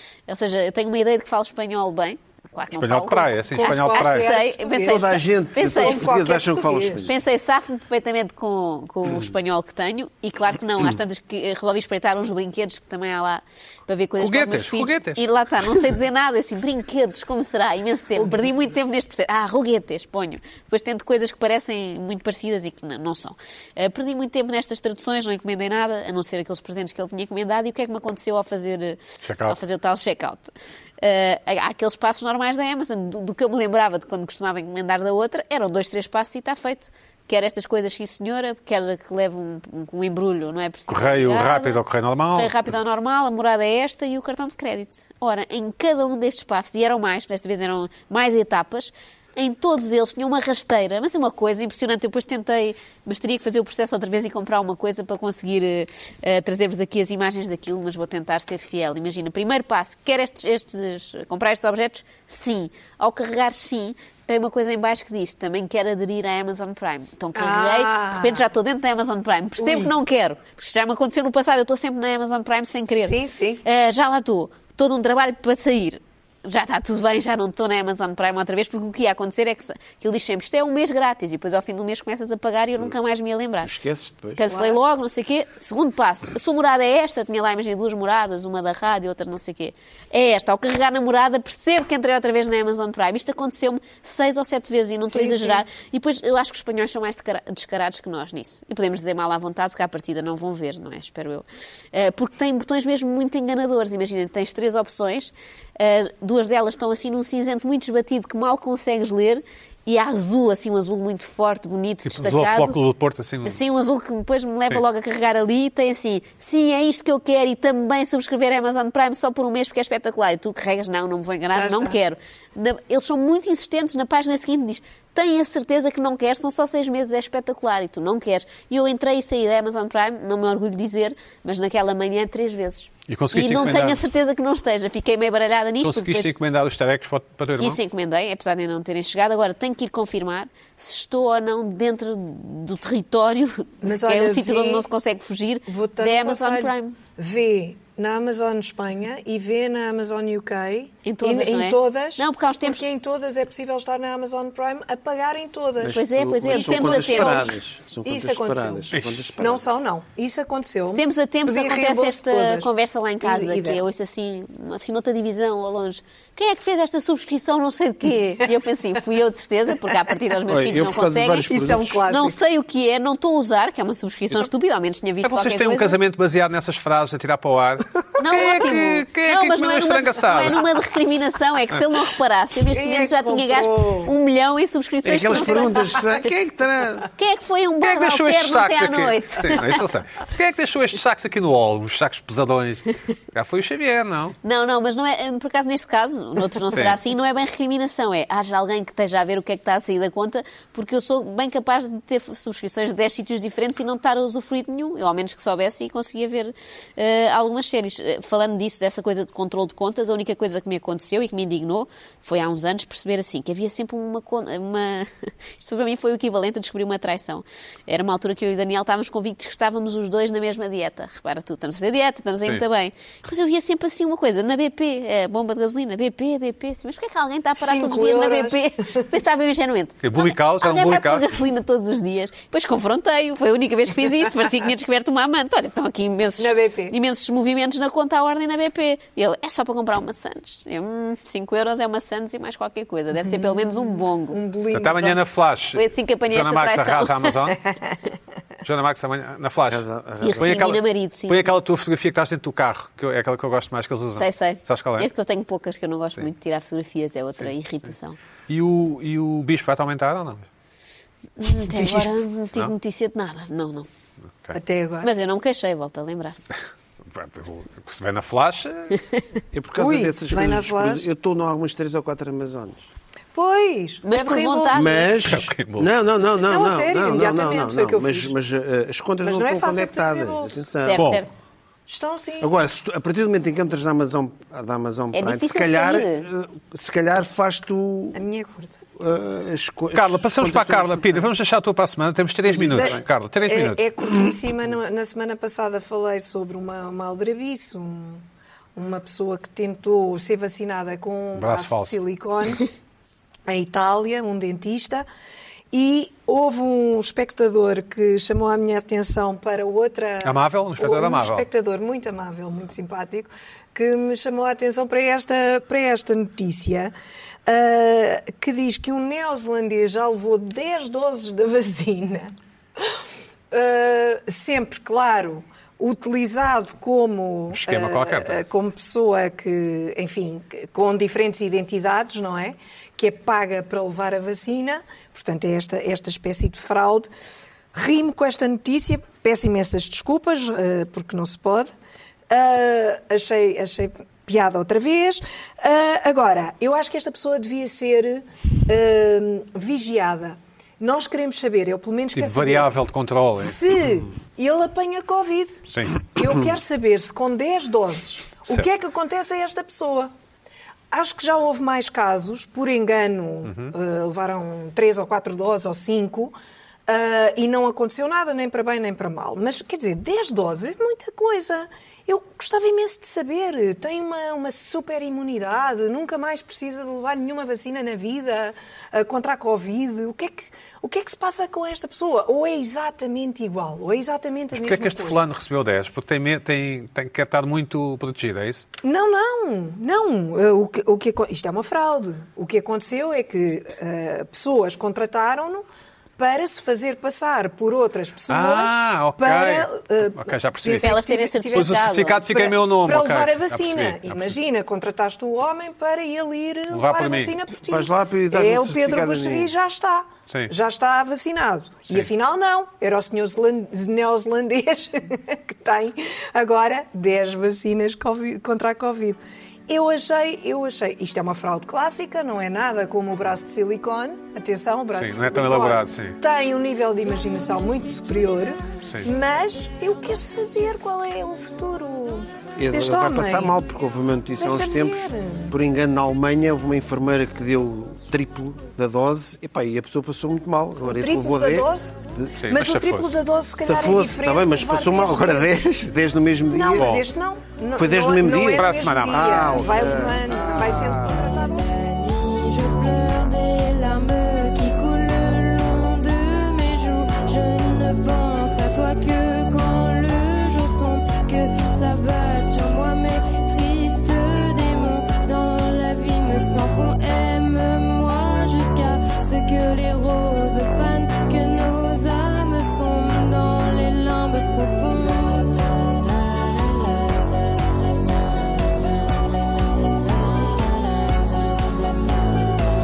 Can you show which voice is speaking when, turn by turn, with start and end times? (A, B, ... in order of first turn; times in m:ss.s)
0:00.3-0:06.4 A
0:02.7-0:04.3 B
0:03.5-0:05.1 C
0:04.8-0:07.2 D
0:05.6-0:07.1 C
0:07.0-0:41.8 A
0:14.2-0:15.2 B
0:18.2-0:18.7 C
0:29.2-0:29.6 B
0:40.9-0:42.5 B
0:42.3-1:23.7 A
1:07.4-1:08.5 C
1:09.6-1:09.9 C
1:13.0-1:13.6 C
1:23.6-1:24.4 D
1:24.4-1:52.8 A
1:24.5-1:24.8 C
1:35.1-1:35.6 C
1:52.0-1:53.6 B
1:53.4-2:16.3 A
2:01.5-2:02.0 C
2:13.1-2:14.1 B
2:15.8-2:17.8 B
2:17.6-2:27.0 A
2:23.8-2:24.9 C
2:25.7-2:42.7 C
2:31.0-2:32.9 A
2:35.8-2:39.7 D
2:35.9-2:37.5 A
2:38.9-2:39.2 B
2:41.0-2:51.5 A
2:43.2-2:43.8 C
2:50.5-2:52.1 D
2:51.5-2:52.4 C
2:52.1-2:56.0 A
2:55.2-3:00.7 B
2:58.2-3:06.2 A
3:02.7-3:04.1 C
3:05.0-3:07.1 D
3:05.3-3:06.1 C
3:07.2-3:09.8 A
3:07.8-3:14.4 B
3:14.4-4:04.4 A
3:16.7-3:17.0 B
3:47.6-3:49.0 C
3:50.0-3:51.3 B
3:56.4-3:57.0 C
4:03.3-4:05.3 C
4:04.7-4:07.6 B
4:05.8-4:07.3 A
4:07.5-4:08.1 C
4:08.6-4:15.1 B
4:09.7-4:10.7 D
4:10.2-4:11.5 A
4:14.2-4:18.2 A
4:18.5-4:20.5 B
4:21.4-4:23.9 A
4:21.7-4:22.1 C
4:24.6-4:25.1 C
4:25.0-4:26.4 A
4:27.1-4:29.0 B
4:29.5-4:32.9 D
4:29.8-4:31.0 C
4:33.3-4:35.1 C
4:34.0-4:35.1 A
4:34.7-4:41.2 D
4:35.2-4:35.9 B
4:36.4-4:38.3 C
4:39.2-4:40.6 C
4:40.8-4:41.4 A
4:41.0-4:41.2 B
4:41.9-4:42.5 C
4:42.4-4:48.2 D
4:45.1-4:46.3 A
4:48.1-4:48.8 C
4:49.0-4:51.3 D
4:49.9-4:53.9 B
4:52.5-4:58.2 C
4:58.8-5:02.7 C
5:01.4-5:02.0 B
5:03.5-5:05.0 C
5:05.7-5:16.9 C
5:10.2-5:11.5 B
5:17.5-5:23.0 C
5:23.5-5:37.1 C
5:27.5-5:28.4 B
5:37.7-5:41.7 C
5:42.3-5:52.7 C
5:52.2-5:53.6 B
5:53.4-6:00.1 C
5:55.7-5:56.0 B
6:00.9-6:06.4 C
6:03.4-6:03.7 B
6:06.9-6:25.2 C
6:24.5-6:28.6 B
6:28.8-6:35.6 C
6:36.2-7:13.6 C
6:38.3-6:44.4 B
6:40.8-6:42.4 A
6:46.7-6:47.4 B
6:47.6-6:49.5 D
7:05.0-7:06.2 B
7:12.6-7:22.3 D
7:14.4-7:15.6 C
7:20.8-7:21.9 C
7:22.4-7:23.2 B
7:22.5-7:25.6 C
7:23.6-7:27.0 D
7:26.5-7:31.7 C
7:26.8-7:27.1 B
7:27.8-7:31.4 D
7:28.5-7:29.6 B
7:31.4-7:57.6 E
7:59.9-8:01.8 E